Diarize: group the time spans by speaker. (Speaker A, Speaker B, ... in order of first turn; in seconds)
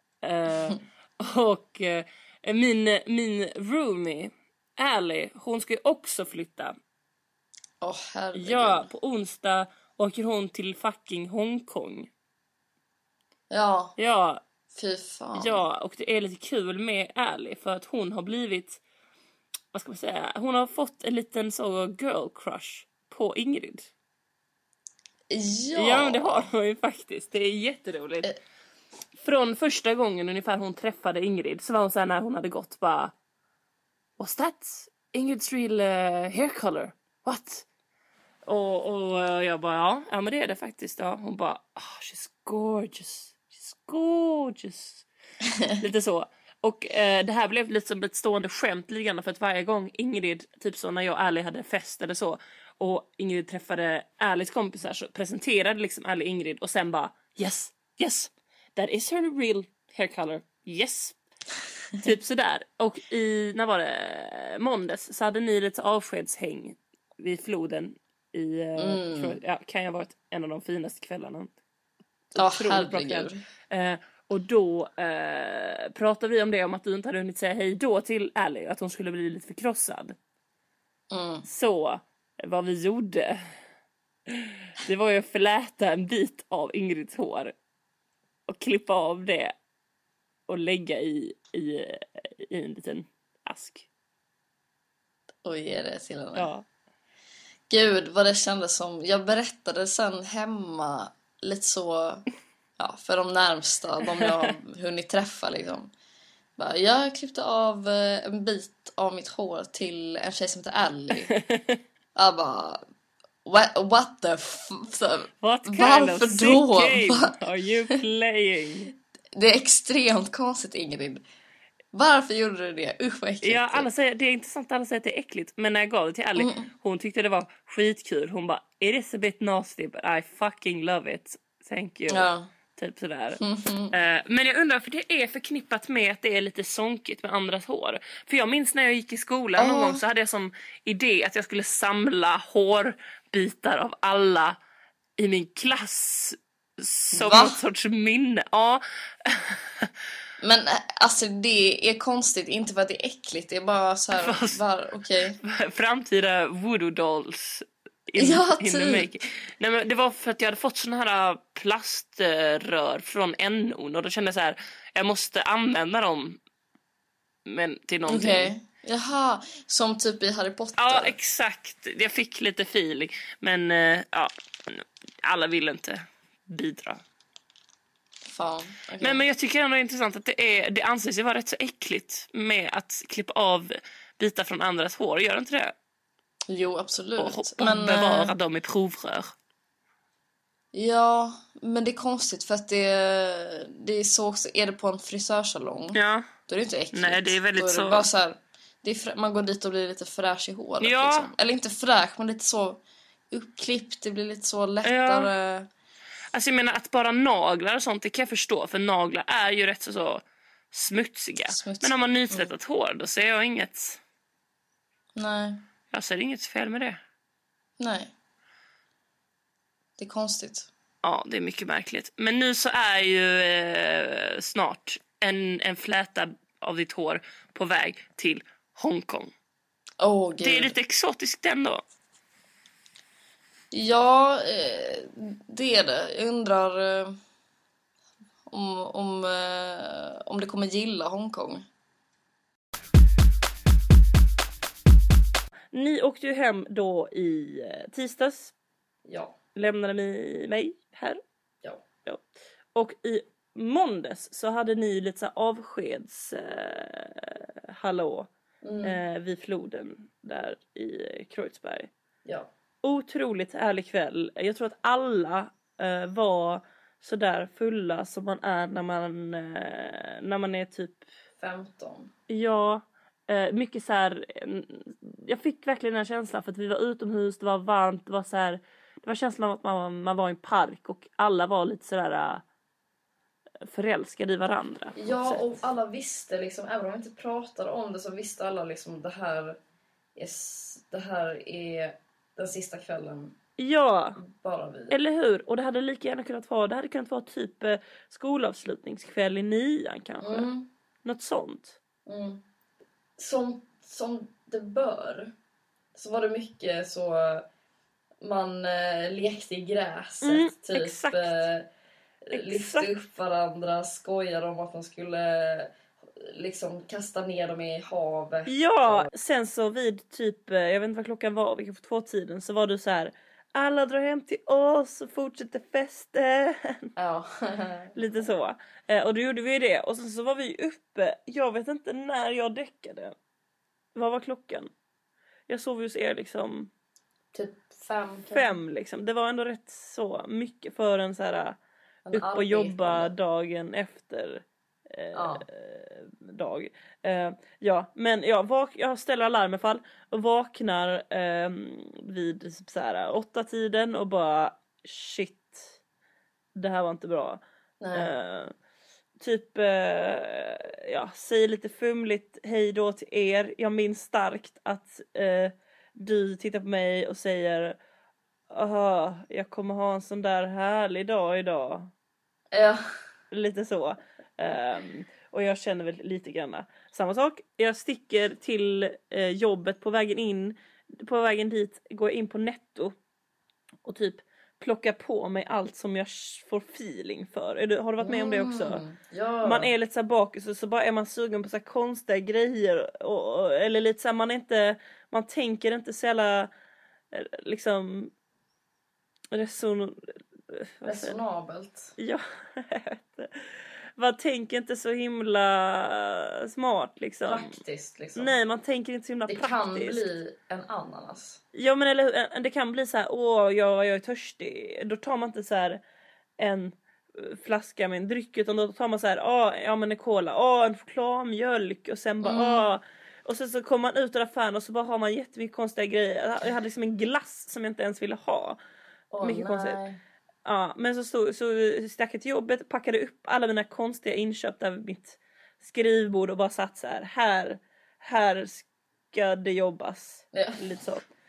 Speaker A: 0.2-6.7, 8.3-12.1, 14.0-14.4, 15.3-18.8, 19.7-23.9, 25.7-28.3, 29.1-33.1, 34.2-37.7, 38.5-45.0, 45.8-61.2, 62.0-71.5, 72.3-80.2, 81.5-83.4, 84.3-87.5, 88.5-89.5, 90.5-93.9, 96.3-96.7, 111.3-111.8, 115.4-118.9, 123.4-133.4, 133.9-144.6, 145.2-149.9, 154.2-154.6, 155.4-166.4, 167.5-168.5, 170.8-177.0, 179.0-185.7, 187.2-189.3, 195.9-196.3, 196.9-198.1, 200.8-201.3, 204.8-205.3, 206.3-214.0, 215.9-217.0, 221.0-229.3, 230.4-231.8, 245.7-248.5, 249.6-251.2, 252.7-258.3, 258.8-261.9, 262.8-271.1, 272.3-282.4, 283.7-285.6, 293.6-294.2, 294.9-300.5, 301.0-301.8, 310.2-311.5, 312.3-312.9, 318.5-326.9, 327.9-333.1, 333.9-334.7, 335.5-336.7, 338.3-341.6, 342.1-355.8, 356.6-357.4, 357.9-358.5, 359.2-367.8, 368.5-371.9, 373.3-382.9, 383.8-388.8, 389.4-396.5, 397.1-398.1, 399.3-401.2, 402.0-407.6, 408.1-410.1, 411.5-415.8, 416.4-428.6, 429.2-429.8, 430.4-441.1
Speaker B: 7.8-8.9, 13.5-13.9, 14.7-15.6, 25.3-26.5, 68.8-69.4, 72.4-73.4, 81.1-81.5, 95.4-96.5, 97.7-102.3, 102.8-105.9, 106.6-111.3, 112.2-112.8, 113.5-117.4, 119.3-121.2, 121.9-123.9, 126.3-126.7, 132.1-132.5, 133.4-134.0, 139.6-140.1, 147.1-147.6, 150.4-155.4, 158.2-159.1, 168.1-171.2, 178.3-179.2, 186.5-188.3, 190.7-205.7, 211.5-212.5, 215.2-215.6, 217.8-218.1, 220.0-220.7, 230.0-230.8, 233.7-237.2, 238.5-241.7, 249.1-249.3, 258.6-259.0, 271.4-272.1, 285.0-289.6, 290.1-293.4, 294.2-295.0, 300.2-300.7, 302.1-302.4, 303.2-305.3, 305.9-307.5, 308.2-311.7, 312.3-319.1, 327.0-328.3, 337.3-338.6, 342.1-343.1, 345.1-345.4, 357.8-358.1, 372.5-372.8, 388.0-389.7, 400.9-401.9, 407.2-408.4, 409.3-411.4, 422.2-422.7, 429.1-430.0, 440.3-440.6